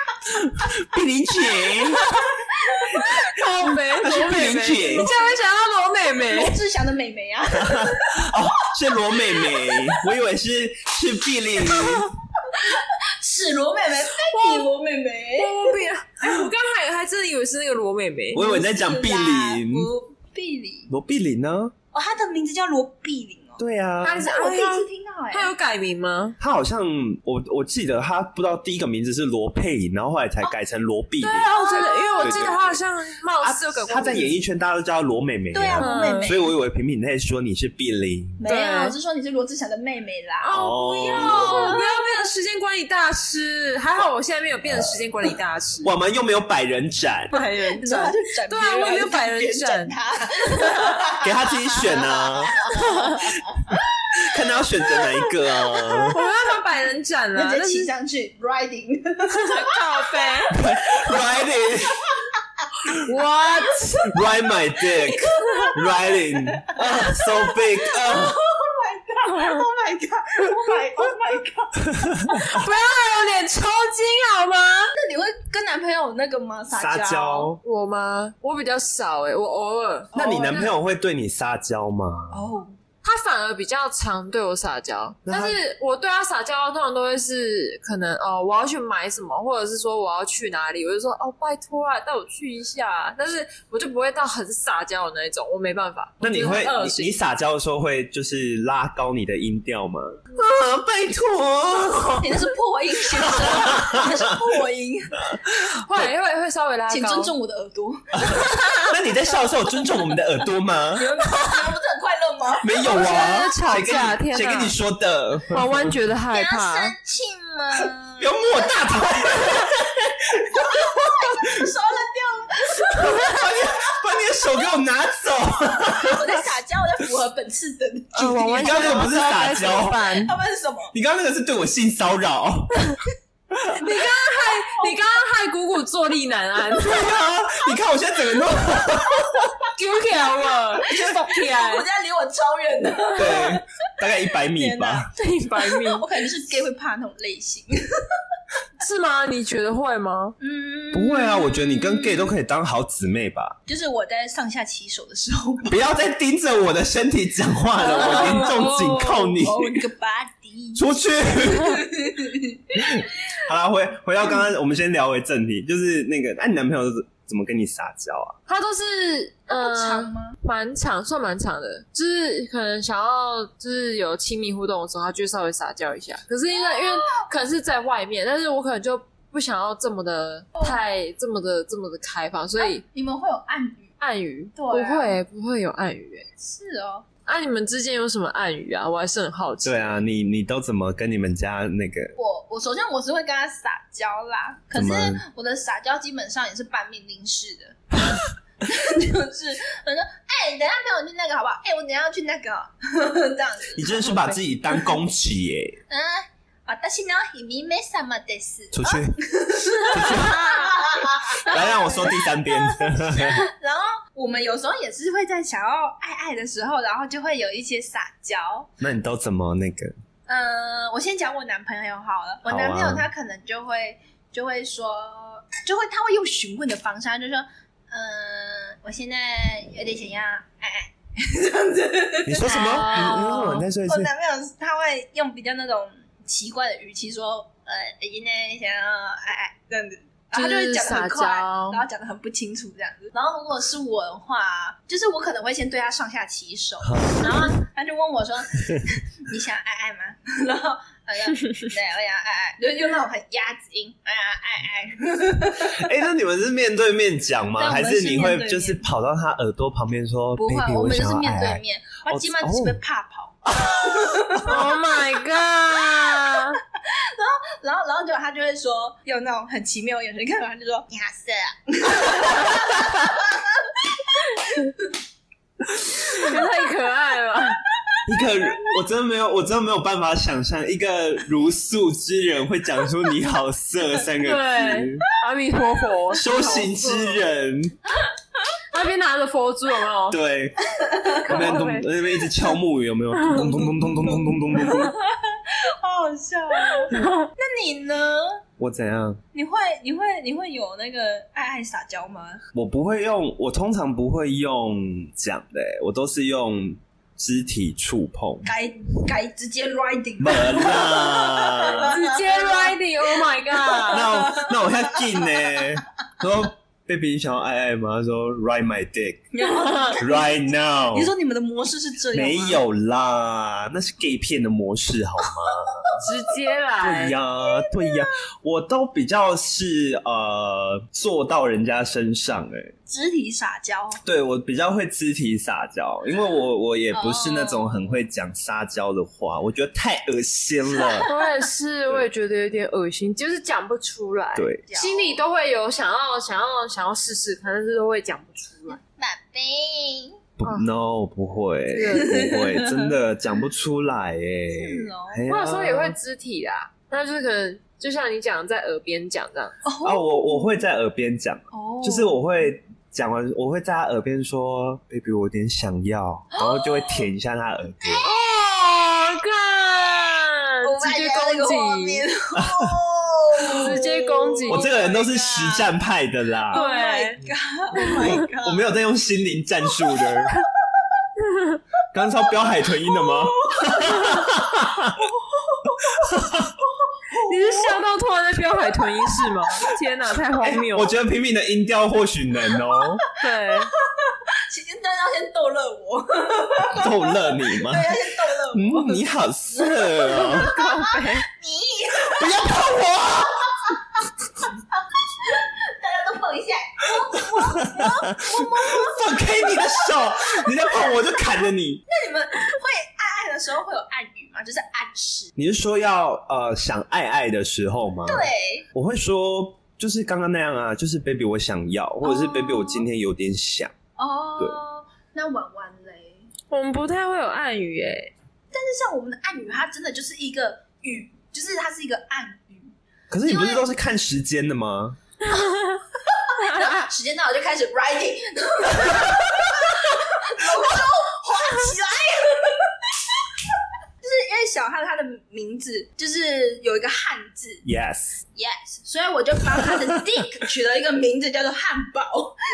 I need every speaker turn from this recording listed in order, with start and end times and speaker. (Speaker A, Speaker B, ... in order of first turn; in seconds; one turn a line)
Speaker A: 0.3-2.0
Speaker B: 2.0-3.3
Speaker C: 3.2-6.6
Speaker A: 3.6-5.1
Speaker B: 4.8-5.4
Speaker B: 6.3-9.9
Speaker A: 7.5-12.1
Speaker C: 11.6-12.1
Speaker B: 12.4-15.8
Speaker C: 14.3-14.7
Speaker C: 15.3-18.5
Speaker A: 18.3-19.9
Speaker B: 18.4-20.9
Speaker A: 20.9-21.7
Speaker B: 21.9-23.6
Speaker A: 23.6-24.2
Speaker C: 24.0-26.4
Speaker B: 24.1-25.5
Speaker A: 26.4-32.8
Speaker C: 31.2-34.3
Speaker B: 31.5-32.6
Speaker A: 33.4-38.4
Speaker B: 35.5-36.5
Speaker C: 35.8-36.4
Speaker B: 38.4-40.6
Speaker C: 38.5-38.9
Speaker C: 40.4-45.9
Speaker A: 40.5-41.8
Speaker B: 41.1-42.1
Speaker A: 44.6-45.0
Speaker A: 45.8-47.3
Speaker C: 47.3-49.9
Speaker B: 47.3-53.8
Speaker A: 51.2-52.5
Speaker C: 52.7-53.2
Speaker A: 54.2-56.2
Speaker B: 55.8-56.2
Speaker C: 56.1-57.9
Speaker B: 57.3-61.3
Speaker C: 59.3-60.5
Speaker A: 60.5-62.0
Speaker B: 62.1-63.0
Speaker C: 63.0-64.1
Speaker A: 64.1-68.4
Speaker B: 64.8-72.0
Speaker A: 71.9-72.6
Speaker C: 72.3-74.9
Speaker B: 74.9-77.5
Speaker A: 76.7-77.6
Speaker C: 77.6-80.6
Speaker B: 80.1-80.7
Speaker A: 80.1-82.4
Speaker B: 82.3-82.7
Speaker C: 83.0-97.1
Speaker A: 85.2-85.6
Speaker A: 96.2-102.5
Speaker B: 102.2-105.2
Speaker A: 103.2-104.4
Speaker A: 105.5-106.1
Speaker C: 105.8-107.3
Speaker B: 106.9-109.0
Speaker A: 108.2-111.5
Speaker B: 110.9-113.5
Speaker A: 112.6-116.0
Speaker C: 112.9-114.7
Speaker C: 115.5-116.9
Speaker B: 116.3-119.7
Speaker A: 118.2-121.6
Speaker B: 120.5-123.9
Speaker A: 122.9-126.4
Speaker B: 125.9-130.9
Speaker C: 128.2-130.3
Speaker A: 128.5-130.1
Speaker A: 130.9-132.9
Speaker A: 133.5-133.8
Speaker B: 133.8-135.0
Speaker C: 133.8-137.2
Speaker A: 136.8-139.5
Speaker C: 139.7-141.8
Speaker B: 140.7-143.6
Speaker A: 143.2-145.1
Speaker B: 144.5-148.2
Speaker C: 145.1-146.1
Speaker C: 148.8-150.3
Speaker B: 150.4-152.3
Speaker A: 150.9-153.6
Speaker B: 153.7-155.7
Speaker A: 155.7-159.8
Speaker B: 157.8-158.8
Speaker C: 157.9-159.3
Speaker B: 159.3-163.0
Speaker A: 160.8-161.8
Speaker A: 162.7-168.4
Speaker C: 168.5-182.8
Speaker B: 169.5-170.4
Speaker B: 176.7-177.2
Speaker B: 182.6-183.9
Speaker C: 184.0-186.3
Speaker B: 184.6-185.2
Speaker B: 186.4-187.1
Speaker C: 187.2-190.0
Speaker A: 189.6-192.1
Speaker B: 192.2-204.1
Speaker A: 194.7-195.2
Speaker A: 203.7-205.8
Speaker C: 204.0-204.3
Speaker B: 205.9-218.7
Speaker A: 208.7-209.2
Speaker A: 209.9-210.7
Speaker A: 211.4-213.5
Speaker A: 218.8-219.9
Speaker B: 220.3-255.9
Speaker A: 222.4-223.1
Speaker A: 232.2-234.1
Speaker C: 232.4-233.7
Speaker C: 240.3-241.8
Speaker A: 246.8-247.5
Speaker A: 255.6-262.8
Speaker B: 257.6-258.8
Speaker B: 260.4-264.6
Speaker C: 264.4-266.6
Speaker B: 266.2-274.9
Speaker C: 276.1-277.6
Speaker A: 278.1-285.0
Speaker C: 284.2-287.2
Speaker A: 286.1-287.8
Speaker C: 288.7-290.2
Speaker A: 290.1-290.6
Speaker B: 290.7-291.3
Speaker C: 291.2-291.9
Speaker A: 291.2-294.9
Speaker C: 293.2-293.5
Speaker B: 293.6-298.4
Speaker C: 296.9-297.2
Speaker A: 298.6-299.2
Speaker B: 299.3-302.4
Speaker A: 302.5-308.5
Speaker B: 308.4-315.6
Speaker A: 310.2-311.9
Speaker C: 311.9-314.1
Speaker A: 313.9-319.2
Speaker B: 319.3-320.3
Speaker A: 319.9-321.1
Speaker B: 320.9-322.6
Speaker A: 322.1-325.9
Speaker C: 326.0-327.2
Speaker A: 326.8-332.7
Speaker B: 327.4-328.1
Speaker B: 332.9-334.0
Speaker A: 334.0-341.1
Speaker B: 336.9-337.7
Speaker B: 340.8-341.3
Speaker C: 341.0-348.8
Speaker A: 344.3-344.6
Speaker B: 344.7-345.2
Speaker B: 348.7-350.2
Speaker A: 350.4-355.9
Speaker C: 351.7-352.2
Speaker B: 351.9-352.9
Speaker B: 354.5-355.2
Speaker C: 355.3-359.6
Speaker B: 359.6-360.5
Speaker A: 359.8-368.1
Speaker B: 361.5-362.2
Speaker B: 366.3-367.0
Speaker C: 368.0-372.0
Speaker B: 370.6-375.7
Speaker A: 372.3-372.7
Speaker C: 373.5-374.7
Speaker A: 374.5-376.6
Speaker C: 376.5-377.2
Speaker B: 376.5-378.7
Speaker A: 378.0-380.3
Speaker B: 379.9-380.4
Speaker A: 381.9-385.0
Speaker B: 382.8-387.8
Speaker A: 386.0-386.5
Speaker C: 387.3-390.9
Speaker B: 389.1-389.4
Speaker A: 390.4-393.0
Speaker C: 393.2-393.7
Speaker B: 393.5-402.5
Speaker A: 396.7-397.9
Speaker A: 398.5-400.6
Speaker C: 400.1-401.3
Speaker A: 402.1-403.8
Speaker B: 404.7-410.4
Speaker A: 407.3-411.8
Speaker B: 411.9-415.3
Speaker A: 415.4-423.7
Speaker B: 418.1-418.6
Speaker B: 422.0-422.9
Speaker B: 424.0-426.2
Speaker C: 426.5-428.1
Speaker B: 428.5-432.7
Speaker A: 433.1-435.0
Speaker B: 433.2-433.7
Speaker B: 436.1-443.0
Speaker B: 444.0-447.6
Speaker A: 447.6-448.2
Speaker B: 448.3-452.4
Speaker A: 449.6-450.0